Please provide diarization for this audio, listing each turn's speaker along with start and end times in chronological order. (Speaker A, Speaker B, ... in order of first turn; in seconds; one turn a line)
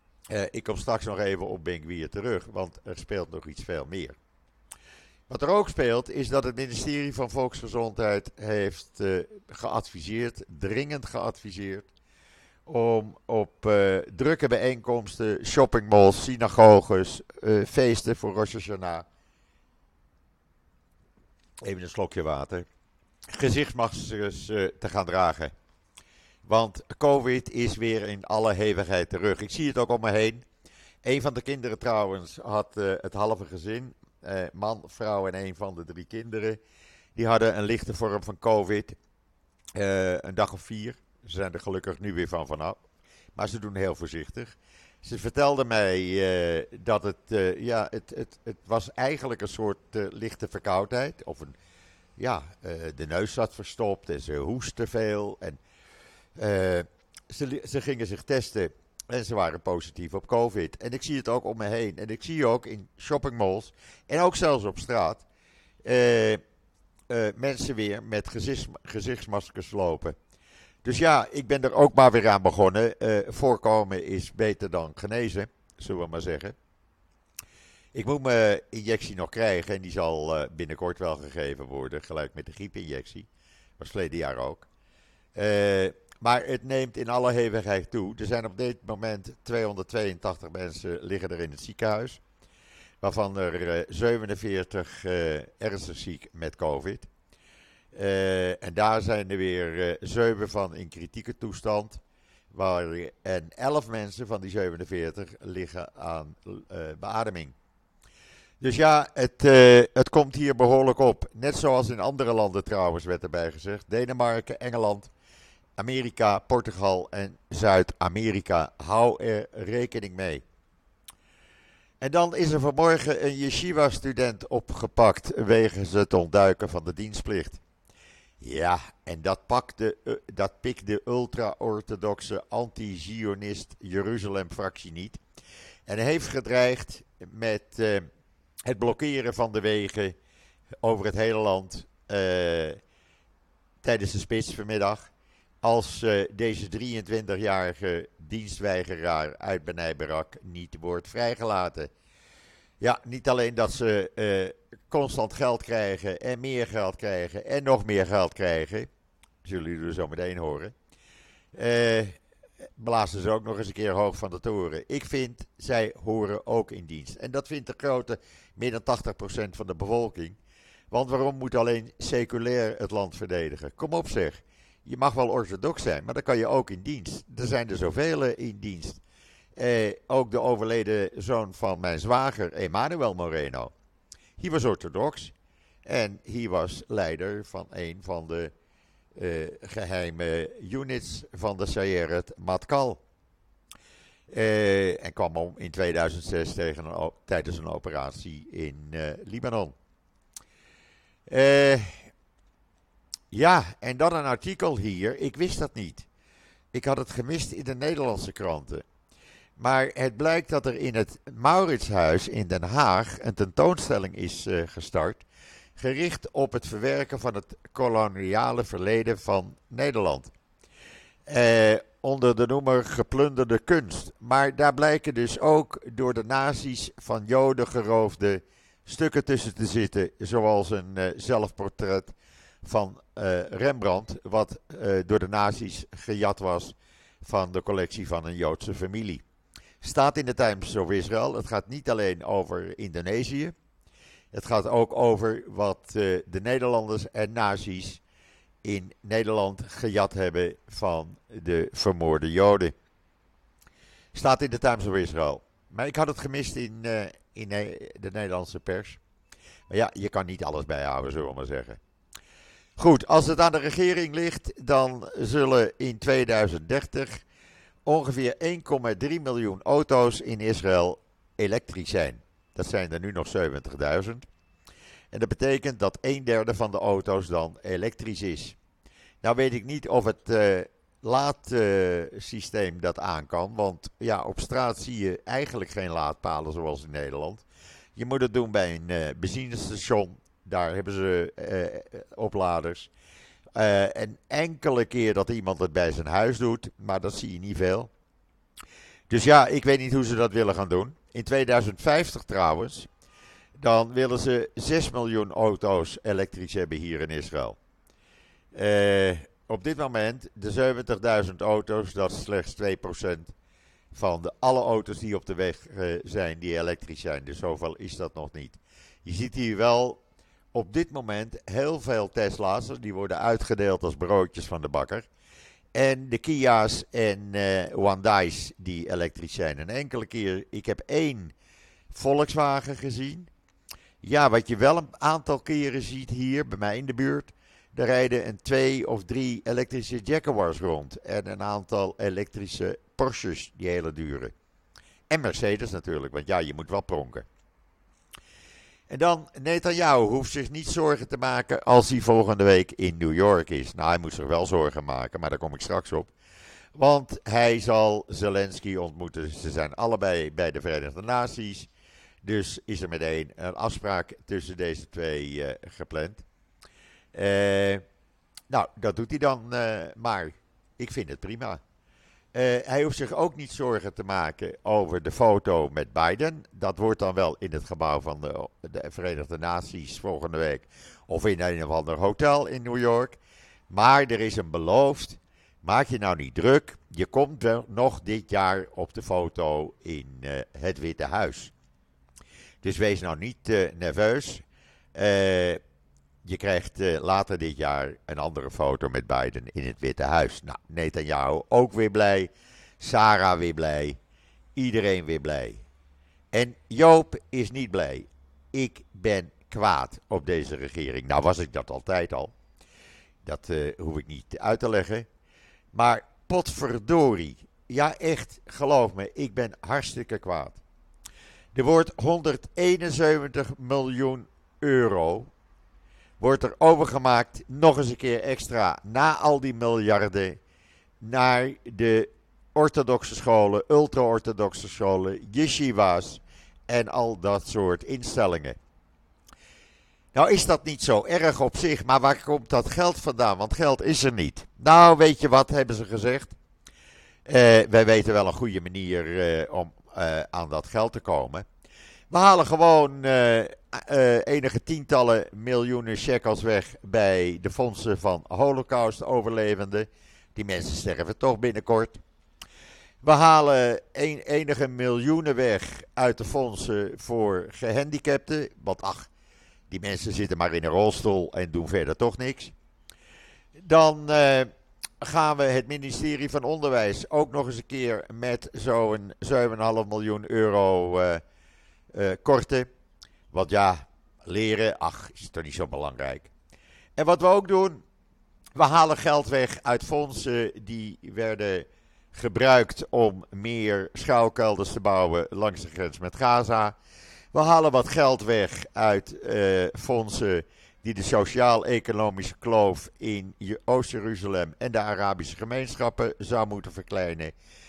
Speaker A: 0.3-4.2
Speaker A: 5.3-11.9
Speaker A: 12.7-19.1
Speaker A: 21.6-22.7
Speaker A: 23.3-25.5
Speaker A: 26.4-30.4
Speaker A: 31.0-36.6
Speaker A: 37.2-39.0
Speaker A: 39.8-42.8
Speaker A: 43.4-51.6
Speaker A: 52.2-55.6
Speaker A: 56.4-65.2
Speaker A: 65.8-66.4
Speaker A: 67.1-70.2
Speaker A: 70.8-76.6
Speaker A: 77.9-83.3
Speaker A: 83.8-84.7
Speaker A: 85.3-92.2
Speaker A: 93.0-97.1
Speaker A: 97.9-102.0
Speaker A: 102.5-107.5
Speaker A: 108.6-115.1
Speaker A: 115.8-120.4
Speaker A: 122.0-127.6
Speaker A: 128.4-135.2
Speaker A: 135.9-138.1
Speaker A: 138.7-140.2
Speaker A: 140.8-142.8
Speaker A: 143.8-145.1
Speaker A: 145.6-151.9
Speaker A: 152.8-158.9
Speaker A: 159.4-160.7
Speaker A: 161.5-162.2
Speaker A: 162.8-170.4
Speaker A: 170.9-179.0
Speaker A: 179.6-183.7
Speaker A: 184.4-185.3
Speaker A: 185.9-188.5
Speaker A: 189.2-193.0
Speaker A: 194.3-199.8
Speaker A: 201.3-202.1
Speaker A: 203.3-206.1
Speaker A: 206.7-208.8
Speaker A: 209.6-215.2
Speaker A: 215.8-220.3
Speaker A: 221.3-239.2
Speaker A: 239.8-243.5
Speaker A: 244.3-248.0
Speaker A: 248.6-252.7
Speaker A: 254.1-259.0
Speaker A: 259.7-261.8
Speaker A: 262.8-267.2
Speaker A: 267.9-274.3
Speaker A: 275.1-278.6
Speaker A: 279.2-287.4
Speaker A: 288.0-292.9
Speaker A: 293.6-297.9
Speaker A: 299.1-302.9
Speaker A: 303.6-307.6
Speaker A: 308.5-313.3
Speaker A: 313.9-320.0
Speaker A: 320.5-325.1
Speaker A: 325.7-331.3
Speaker A: 331.9-333.3
Speaker A: 334.0-344.3
Speaker A: 345.1-347.3
Speaker A: 348.9-356.1
Speaker A: 356.8-361.7
Speaker A: 362.2-366.2
Speaker A: 367.1-367.8
Speaker A: 368.5-371.6
Speaker A: 372.3-383.2
Speaker A: 383.7-391.5
Speaker A: 392.6-394.4
Speaker A: 394.9-395.6
Speaker A: 396.2-404.0
Speaker A: 404.6-405.6
Speaker A: 406.3-412.3
Speaker A: 413.2-415.1
Speaker A: 415.7-420.6
Speaker A: 421.6-425.3
Speaker A: 426.2-430.4
Speaker A: 431.0-438.6
Speaker A: 440.1-446.4
Speaker A: 447.3-451.4
Speaker A: 452.1-462.0
Speaker A: 463.0-469.1
Speaker A: 469.7-472.5
Speaker A: 473.6-474.5
Speaker A: 475.0-481.2
Speaker A: 481.9-482.7
Speaker A: 483.3-486.3
Speaker A: 487.0-487.8
Speaker A: 488.6-496.8
Speaker A: 497.3-507.3